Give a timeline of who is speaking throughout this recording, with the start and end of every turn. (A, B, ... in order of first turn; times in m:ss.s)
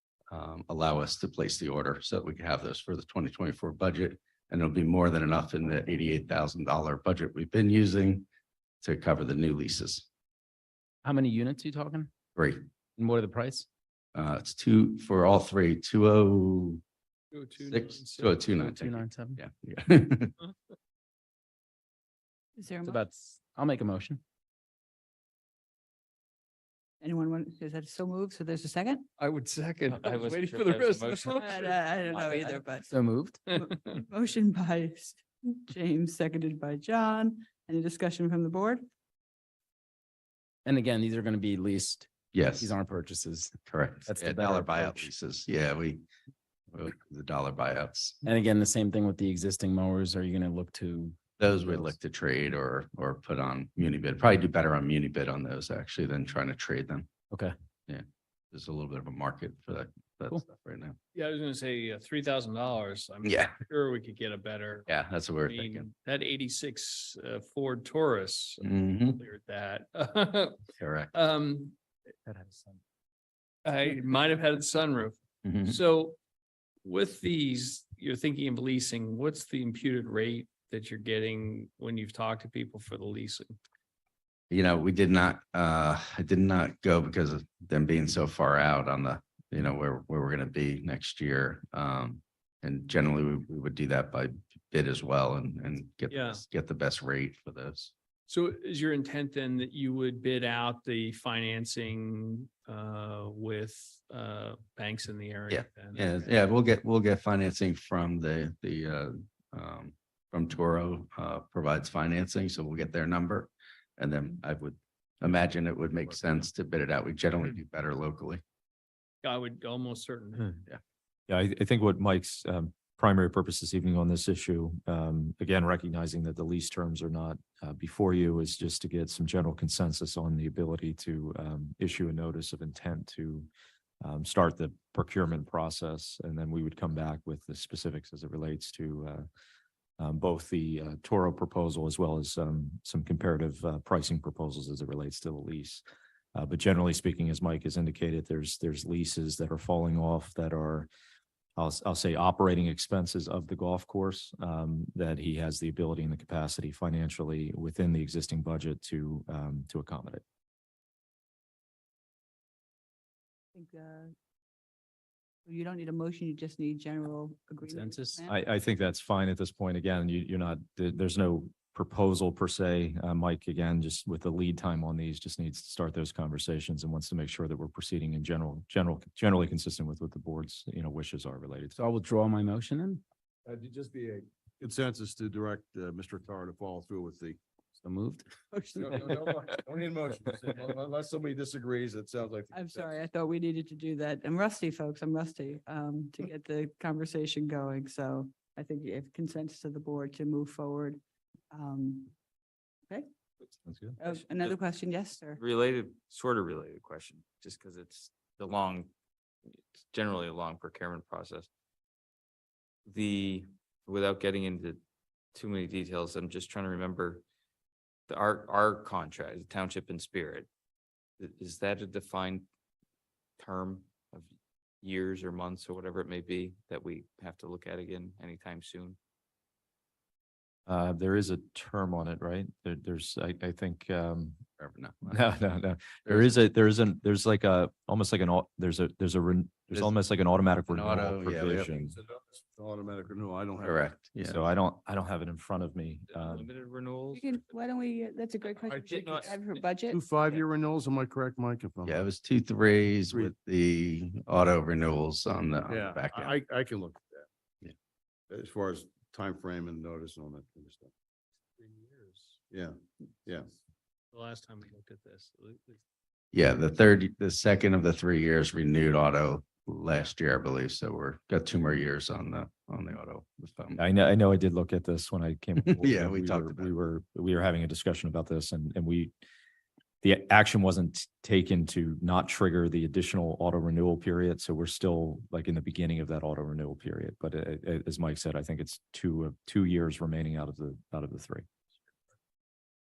0:00.3-0:08.2 A
0:08.8-0:10.1 A
0:11.0-0:12.1 B
0:12.3-0:12.6 A
0:13.0-0:13.6 B
0:14.1-0:16.8 A
0:17.3-0:18.9 C
0:17.6-0:20.3 A
0:18.8-0:19.4 B
0:22.6-0:23.0 D
0:22.8-0:24.2 B
0:27.0-0:29.0 D
0:29.2-0:32.6 C
0:29.9-0:31.4 E
0:31.3-0:32.9 D
0:32.9-0:33.5 B
0:33.5-0:38.8 D
0:40.6-0:45.1 B
0:42.3-0:42.8 A
0:43.7-0:46.0 A
0:46.7-0:48.2 A
0:48.2-0:51.9 B
0:51.4-0:57.1 A
0:57.9-1:01.0 A
1:01.1-1:04.9 C
1:03.2-1:03.6 A
1:04.9-1:05.9 A
1:05.4-1:10.6 C
1:08.6-1:09.2 A
1:10.8-1:11.1 A
1:11.1-1:11.7 C
1:13.6-1:16.2 C
1:15.4-1:15.8 A
1:16.8-1:23.6 C
1:24.5-1:37.9 A
1:36.1-1:36.4 C
1:38.3-1:46.3 C
1:45.5-1:58.4 A
1:59.2-2:00.6 C
2:01.3-2:13.5 F
2:14.0-2:19.2 F
2:20.0-2:25.8 F
2:26.3-2:30.9 F
2:31.6-2:40.2 F
2:43.5-2:44.1 D
2:45.4-2:48.3 D
2:47.7-2:48.2 B
2:48.3-3:01.8 F
3:01.7-3:03.0 B
3:03.4-3:07.4 G
3:07.8-3:08.2 B
3:08.5-3:08.9 D
3:08.7-3:13.0 G
3:12.5-3:21.0 D
3:21.5-3:22.1 D
3:23.6-3:24.0 F
3:24.0-3:25.4 D
3:25.4-3:28.9 E
3:29.8-3:31.5 E
3:32.9-3:34.8 E
3:35.3-3:37.2 E
3:38.1-3:40.5 E
3:41.2-3:42.4 E
3:43.4-3:44.3 E
3:44.8-3:49.0 E
3:50.7-3:54.4 F
3:54.6-3:55.2 A
3:55.0-4:01.9 F
3:56.0-3:56.3 A
4:00.7-4:01.7 A
4:01.6-4:03.8 G
4:03.6-4:04.4 A
4:04.2-4:06.4 F
4:06.2-4:07.2 E
4:07.1-4:10.0 D
4:08.7-4:09.4 G
4:08.9-4:09.3 E
4:09.9-4:12.0 G
4:11.8-4:16.3 A
4:15.7-4:17.2 G
4:18.3-4:20.9 G
4:21.6-4:22.4 C
4:22.5-4:23.5 G
4:24.1-4:25.8 C
4:26.3-4:33.8 A
4:33.8-4:39.1 F
4:35.6-4:36.7 A
4:40.0-4:51.5 F